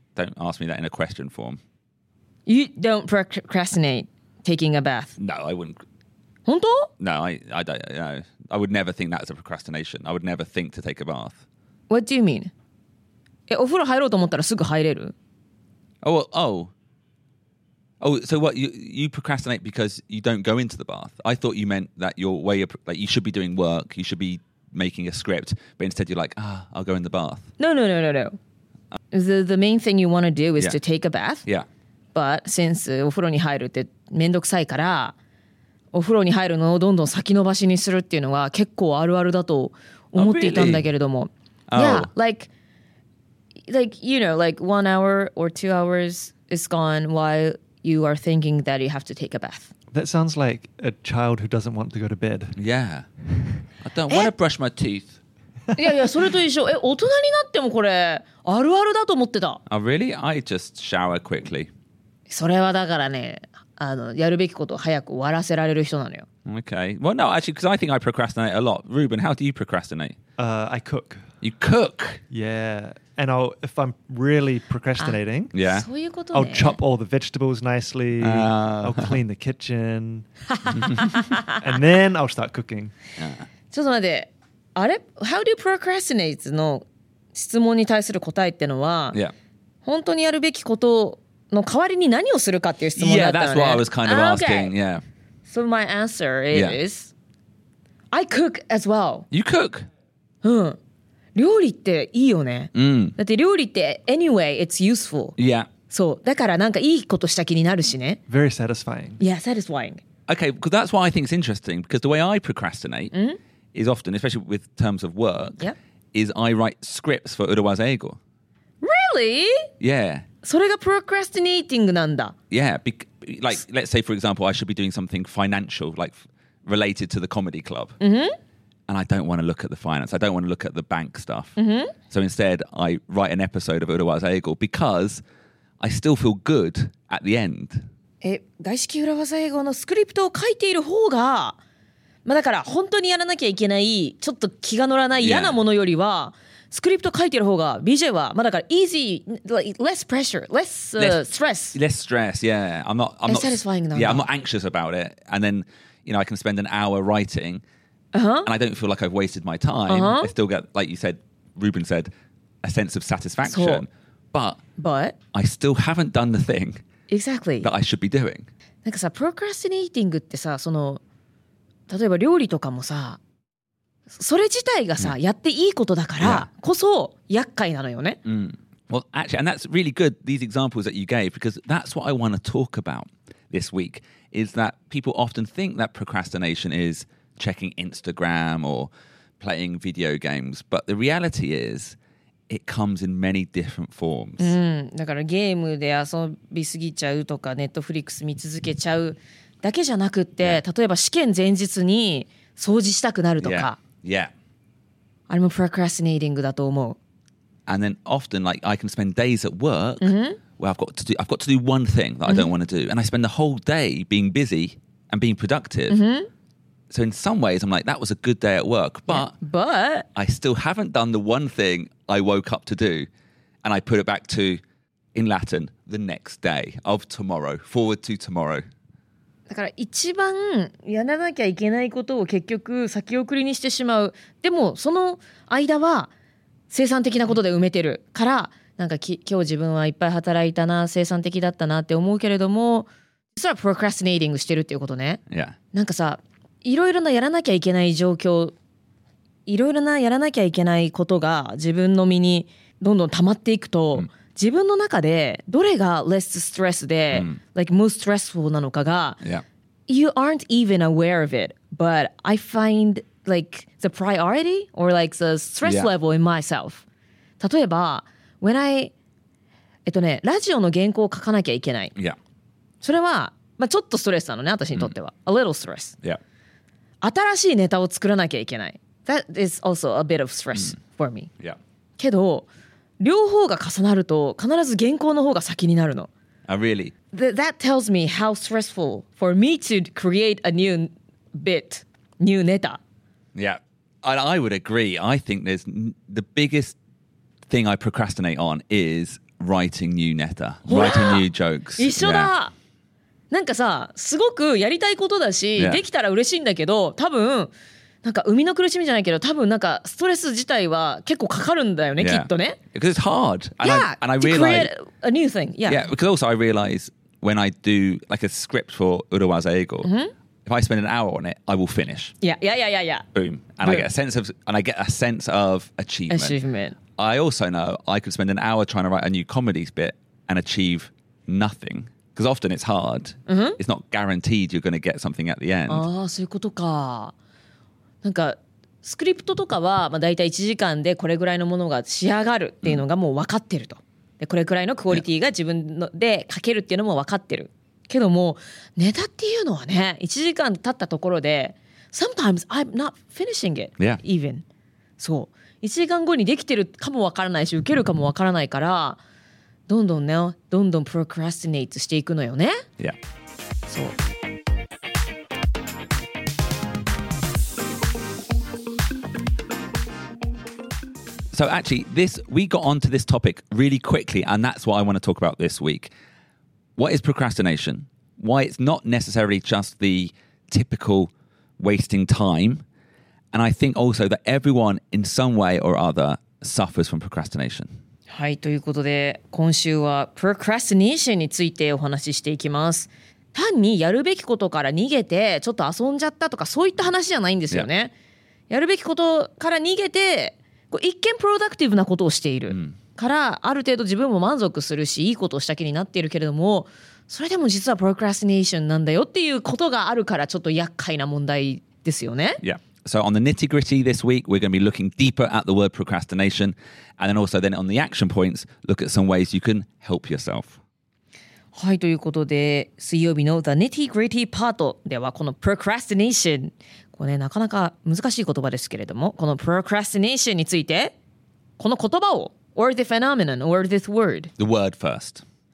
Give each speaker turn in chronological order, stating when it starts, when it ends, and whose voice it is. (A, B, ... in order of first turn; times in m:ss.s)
0:00.2-0:01.6 A
0:02.4-0:05.2 B
0:05.2-0:05.8 A
0:06.4-0:06.9 B
0:07.0-0:11.4 A
0:11.9-0:12.5 B
0:13.5-0:15.1 B
0:16.0-0:16.7 A
0:18.0-0:27.5 A
0:27.6-0:28.4 B
0:29.1-0:31.4 B
0:32.1-0:35.2 B
0:35.9-0:42.5 B
0:40.2-0:40.9 A
0:41.7-0:42.1 A
0:43.7-0:49.7 B
0:49.9-0:52.5 C
0:52.5-0:53.0 A
0:53.8-0:55.2 A
0:55.7-0:59.6 B
0:59.7-1:01.7 A
1:02.3-1:06.2 B
1:06.4-1:10.1 A
1:10.4-1:11.2 C
1:11.4-1:12.2 A
1:12.3-1:15.5 C
1:15.0-1:16.8 B
1:15.5-1:15.9 A
1:16.3-1:20.8 C
1:18.2-1:19.2 A
1:20.5-1:21.5 B
1:21.4-1:22.9 C
1:23.2-1:23.4 A
1:23.7-1:29.2 B
1:29.8-1:34.7 B
1:33.0-1:35.0 A
1:35.5-1:37.1 B
1:36.5-1:36.8 A
1:38.1-1:39.2 B
1:39.3-1:39.8 A
1:40.4-1:40.8 B
1:41.4-1:45.3 B
1:42.7-1:43.2 A
1:45.4-1:45.7 A
1:45.9-1:48.2 B
1:48.3-1:49.2 C
1:49.2-1:50.0 B
1:50.3-1:53.1 A
1:53.1-1:53.4 B
1:53.7-1:58.2 A
1:58.8-1:59.7 B
1:59.8-2:00.2 A
2:00.4-2:02.3 B
2:02.5-2:08.0 A
2:08.0-2:08.3 B
2:08.9-2:11.6 A
2:11.6-2:11.9 B
2:12.1-2:15.2 A
2:15.8-2:17.8 A
2:18.2-2:21.6 B
2:22.2-2:31.8 B
2:25.2-2:25.6 A
2:31.0-2:37.6 A
2:33.3-2:34.3 B
2:38.1-2:38.5 B
2:38.4-2:42.1 A
2:39.9-2:40.3 B
2:42.6-2:44.6 A
2:43.4-2:43.8 B
2:44.8-2:45.2 B
2:45.3-2:46.8 A
2:47.1-2:47.7 B
2:47.6-2:48.4 A
2:48.8-2:51.0 B
2:51.9-2:53.2 B
2:54.1-2:58.2 B
2:56.2-2:56.5 A
2:58.2-3:12.0 A
3:12.5-3:14.6 A
3:14.4-3:23.8 B
3:23.4-3:24.3 A
3:25.3-3:27.0 B
3:27.7-3:36.0 A
3:30.0-3:30.4 B
3:32.2-3:32.5 B
3:35.9-3:36.3 B
3:36.9-3:39.3 A
3:39.1-3:40.0 B
3:40.1-3:43.1 A
3:43.6-3:44.6 A
3:45.1-3:48.6 A
3:49.5-3:56.1 B
3:56.7-4:05.2 B
4:05.3-4:05.6 A
4:05.7-4:08.5 B
4:09.4-4:19.2 B
4:17.1-4:17.4 A
4:19.9-4:26.8 B
4:25.6-4:25.9 A
4:27.4-4:28.9 B
4:29.8-4:31.9 B
4:32.8-4:36.0 B
4:37.0-4:41.3 B
4:42.0-4:42.5 B
4:43.0-4:46.1 B
4:46.5-4:46.9 A
4:47.1-4:52.8 B
4:53.3-4:56.7 A
4:57.5-5:02.3 A
5:00.7-5:01.2 B
5:01.8-5:02.5 B
5:03.3-5:07.5 B
5:05.6-5:05.8 A
5:08.0-5:12.6 B
5:12.0-5:14.7 A
5:13.6-5:15.8 B
5:15.7-5:19.9 A
5:19.8-5:20.1 B
5:20.4-5:22.1 A
5:22.2-5:23.0 B
5:23.1-5:26.4 A
5:26.1-5:26.8 B
5:27.0-5:35.8 A
5:33.3-5:33.6 B
5:35.7-5:37.1 B
5:38.0-5:54.4 B
5:55.0-5:59.0 B
5:59.7-6:02.6 B
6:03.7-6:03.9 B
6:11.3-6:15.9 A
6:16.8-6:22.6 A
6:23.3-6:27.7 A
6:28.1-6:37.9 B
6:38.5-6:52.4 B
6:42.5-6:42.7 A
6:52.4-7:00.6 A
7:01.5-7:10.9 B
7:11.6-7:14.3 B
7:14.4-7:15.2 A